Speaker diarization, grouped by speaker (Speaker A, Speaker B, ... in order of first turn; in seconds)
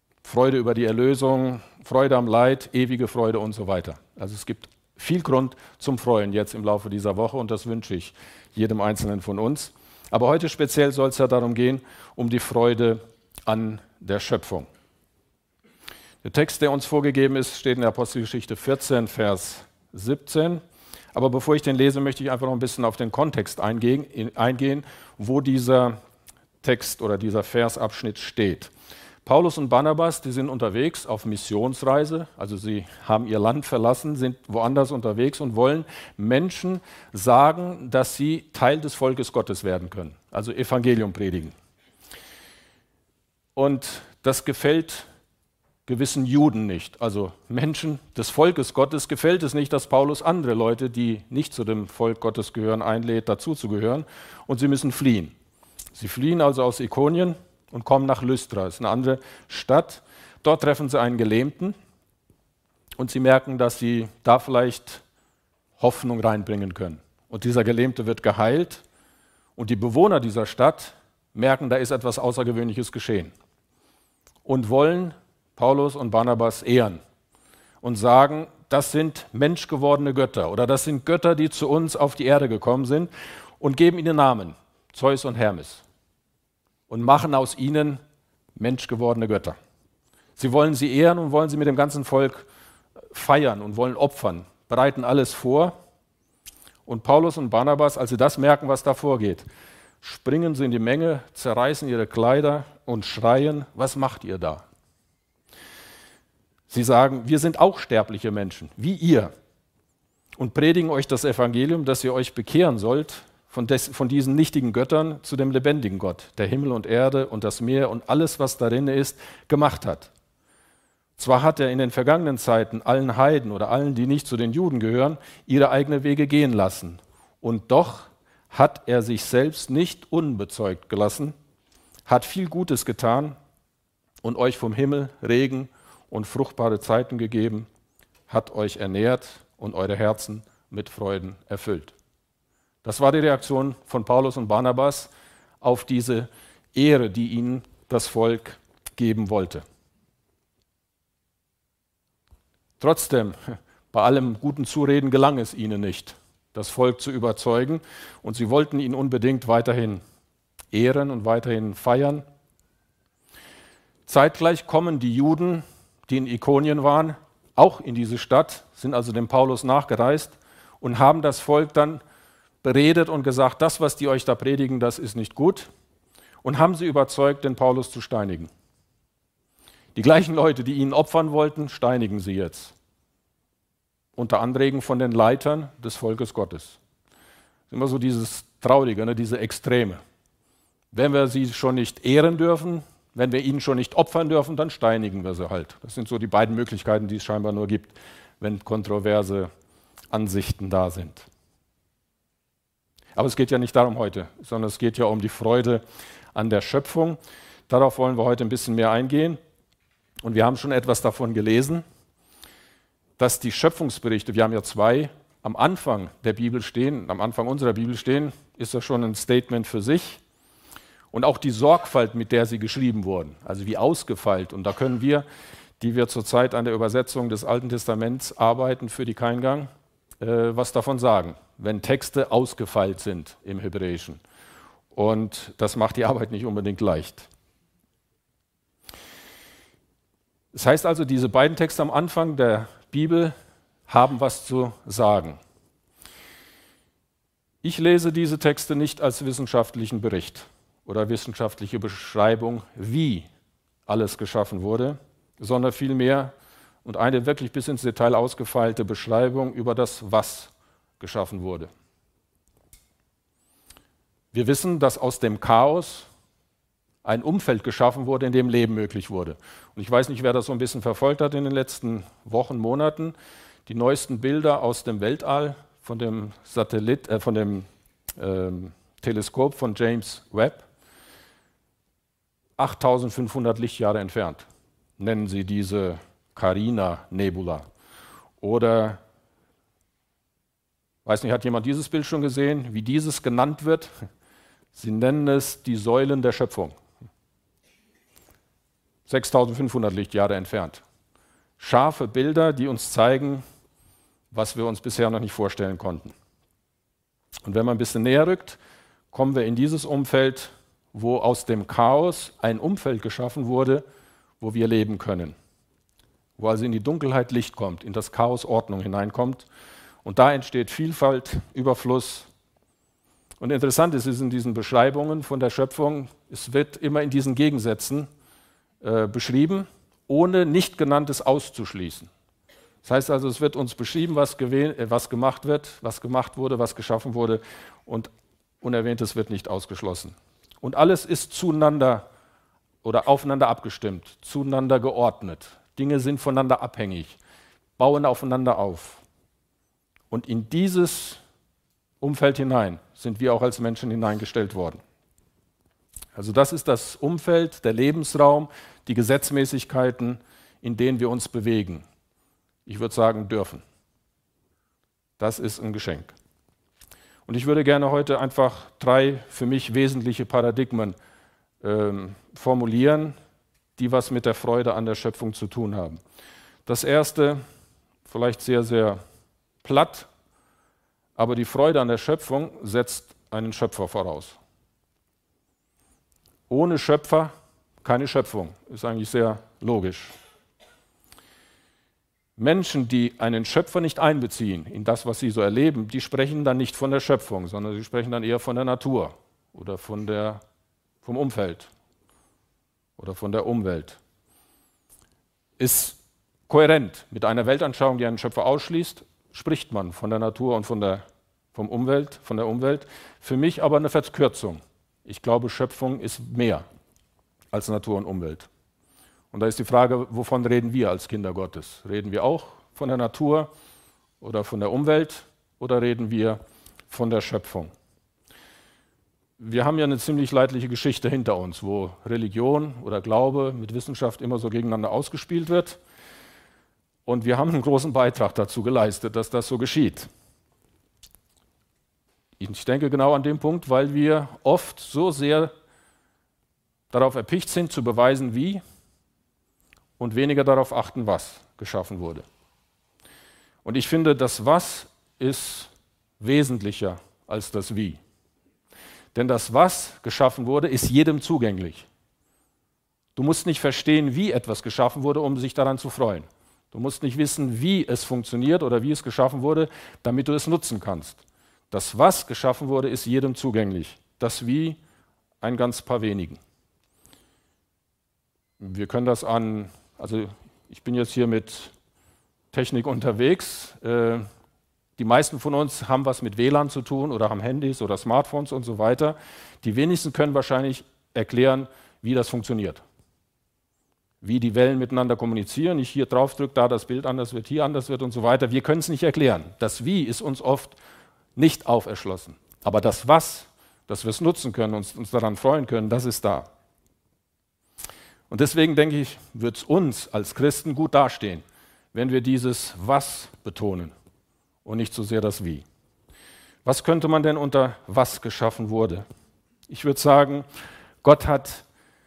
Speaker A: 0.2-14.7, 16.2-20.6, 21.1-26.0, 26.6-28.7, 29.2-41.5, 43.5-45.0, 45.9-55.3, 55.9-61.7, 63.0-65.0, 65.8-68.8, 69.5-73.3, 74.4-77.0, 77.8-85.8, 86.9-88.0, 88.5-89.6, 90.4-92.5, 93.1-95.7, 96.8-99.5, 100.0-104.6, 106.7-109.3, 110.4-120.1, 121.2-131.3, 132.1-133.4, 134.2-137.7, 138.3-141.9, 142.8-149.6, 152.8-160.0, 160.7-162.2, 164.1-172.0, 172.6-175.7, 176.4-178.5, 179.9-182.7, 184.2-186.8, 187.7-190.0, 190.9-199.5, 200.1-201.3, 203.2-205.8, 206.3-209.4, 210.2-211.8, 213.2-220.2, 221.1-225.2, 225.8-229.7, 230.2-234.2, 234.9-237.3, 240.5-243.3, 243.9-245.4, 247.6-253.3, 253.9-256.3, 256.8-261.7, 264.3-266.1, 267.0-273.1, 273.6-280.6, 282.6-284.5, 285.0-287.6, 288.4-289.0, 291.0-293.9, 294.7-296.8, 299.1-300.8, 301.6-303.4, 304.3-306.1, 307.4-308.6, 309.1-313.8, 314.4-315.3, 316.4-319.5, 320.0-322.3, 323.4-328.1, 328.8-332.1, 332.8-338.1, 338.6-342.1, 342.8-347.2, 347.8-349.0, 350.1-351.2, 352.0-354.8, 356.1-361.8, 362.6-363.6, 365.2-366.1, 367.2-370.9, 371.6-373.1, 373.8-376.0, 376.6-377.4, 378.1-379.0, 379.6-380.1, 381.2-384.4, 386.5-387.3, 387.8-390.1, 392.4-400.4, 401.0-401.7, 403.0-404.0, 405.6-416.6, 417.5-418.5, 419.3-423.5, 424.2-426.4, 426.9-427.7, 429.4-435.8, 437.1-440.1, 442.4-445.5, 446.9-448.6, 450.0-452.2, 453.6-458.0, 459.1-461.9, 463.1-474.8, 475.4-476.4, 478.6-481.7, 482.5-484.2, 485.0-492.8, 494.2-500.8, 501.4-506.5, 508.3-513.9, 514.6-515.6, 516.6-519.0, 519.7-520.4, 521.0-521.6